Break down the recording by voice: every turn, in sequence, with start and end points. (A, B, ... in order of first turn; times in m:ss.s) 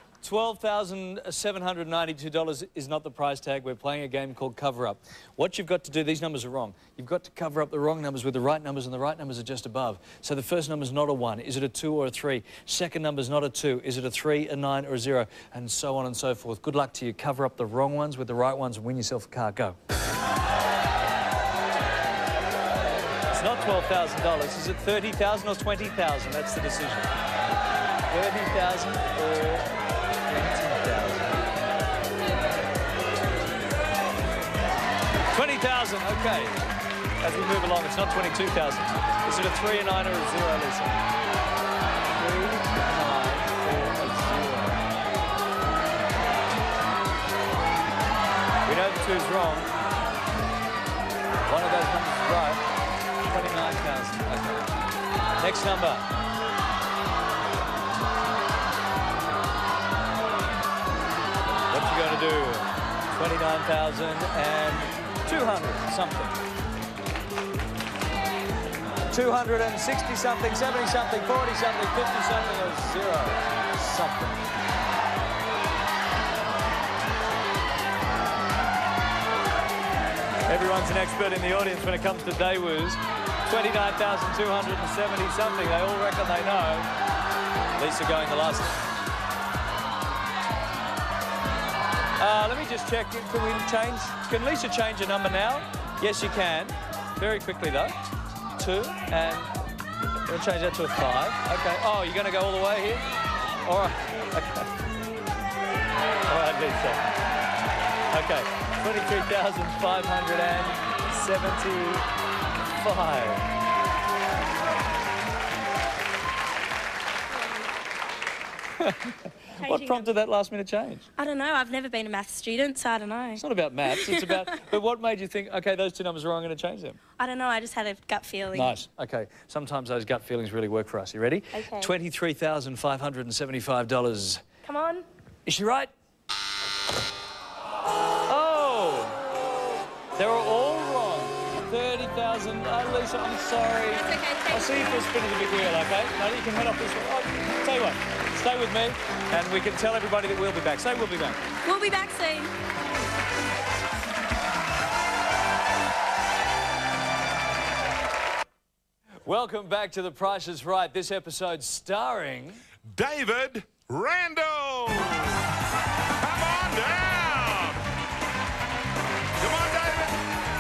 0:00.2-0:19.8 A
0:23.3-0:27.1 A
0:28.1-0:29.7 A
0:30.2-0:31.5 A
0:35.3-0:36.6 A
0:37.2-0:41.0 A
0:42.1-0:44.8 A
0:48.6-0:49.7 A
0:51.5-0:52.6 A
0:53.2-0:54.7 A
0:55.4-0:56.1 A
1:01.7-1:06.4 A
1:09.1-1:14.5 A
1:20.5-1:26.9 A
1:27.8-1:28.8 A
1:32.2-1:38.0 A
1:38.6-1:39.5 A
1:40.2-1:43.0 A
1:43.6-1:44.7 A
1:46.3-1:47.1 A
1:48.1-1:52.1 A
1:52.7-1:53.4 A
1:58.8-2:01.1 A
1:59.6-2:00.1 B
2:01.2-2:04.4 B
2:03.4-2:07.0 A
2:07.2-2:08.8 B
2:08.5-2:14.4 A
2:11.5-2:11.9 B
2:14.6-2:15.1 B
2:15.4-2:15.9 A
2:18.3-2:19.2 A
2:20.1-2:31.4 A
2:23.9-2:25.1 B
2:31.6-2:32.5 B
2:39.2-2:42.6 A
2:42.9-2:45.4 C
2:46.2-2:47.8 C
2:49.4-2:50.2 C